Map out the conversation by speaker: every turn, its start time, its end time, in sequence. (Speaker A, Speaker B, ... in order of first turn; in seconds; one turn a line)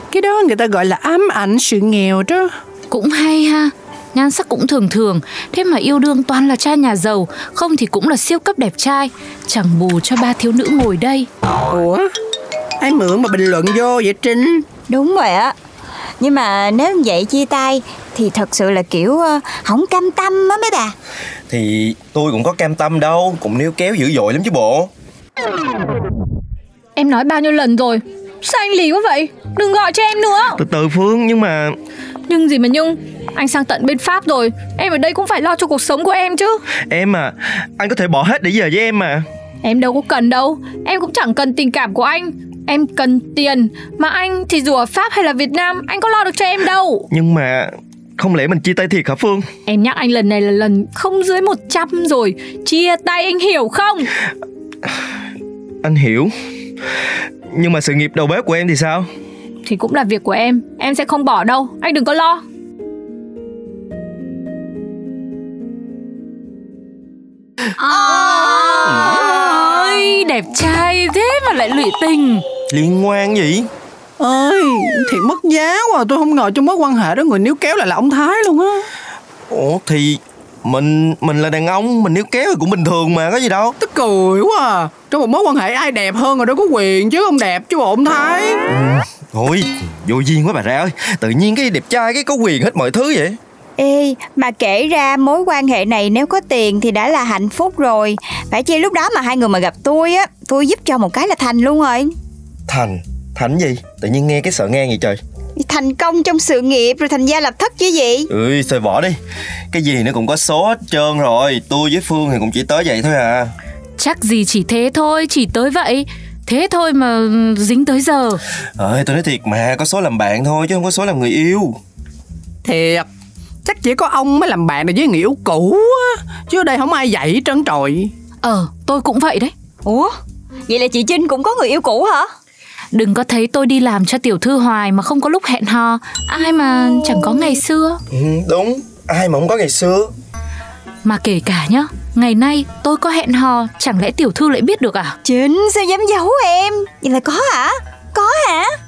Speaker A: 0.1-2.5
Speaker B: 2.9-11.3
Speaker A: 11.7-12.1
Speaker A: 12.8-14.6
Speaker C: 14.9-15.5
Speaker C: 16.2-20.9
Speaker D: 21.5-24.9
Speaker E: 26.9-30.6
Speaker D: 30.6-31.8
Speaker E: 32.3-36.6
Speaker D: 36.9-39.2
Speaker E: 39.6-47.1
Speaker D: 47.1-49.5
Speaker E: 49.7-54.1
Speaker D: 55.8-56.3
Speaker D: 57.5-59.1
Speaker E: 59.6-62.4
Speaker B: 67.9-72.4
Speaker D: 72.7-73.7
Speaker A: 74.2-78.8
Speaker D: 79.5-83.8
Speaker A: 83.8-88.6
Speaker D: 88.7-93.4
Speaker C: 93.8-102.1
Speaker D: 102.7-105.2
Speaker C: 105.6-108.3
Speaker D: 108.3-109.2
Speaker D: 109.7-113.5
Speaker B: 114.0-118.4
Speaker D: 118.8-121.8
Speaker A: 122.6-123.0
Speaker A: 123.6-128.1
Speaker B: 128.4-129.5
Speaker C: 129.8-130.1
Speaker C: 130.7-132.3
Speaker B: 132.9-138.0
Speaker D: 138.1-140.1
Speaker B: 141.0-145.2
Speaker C: 145.2-148.7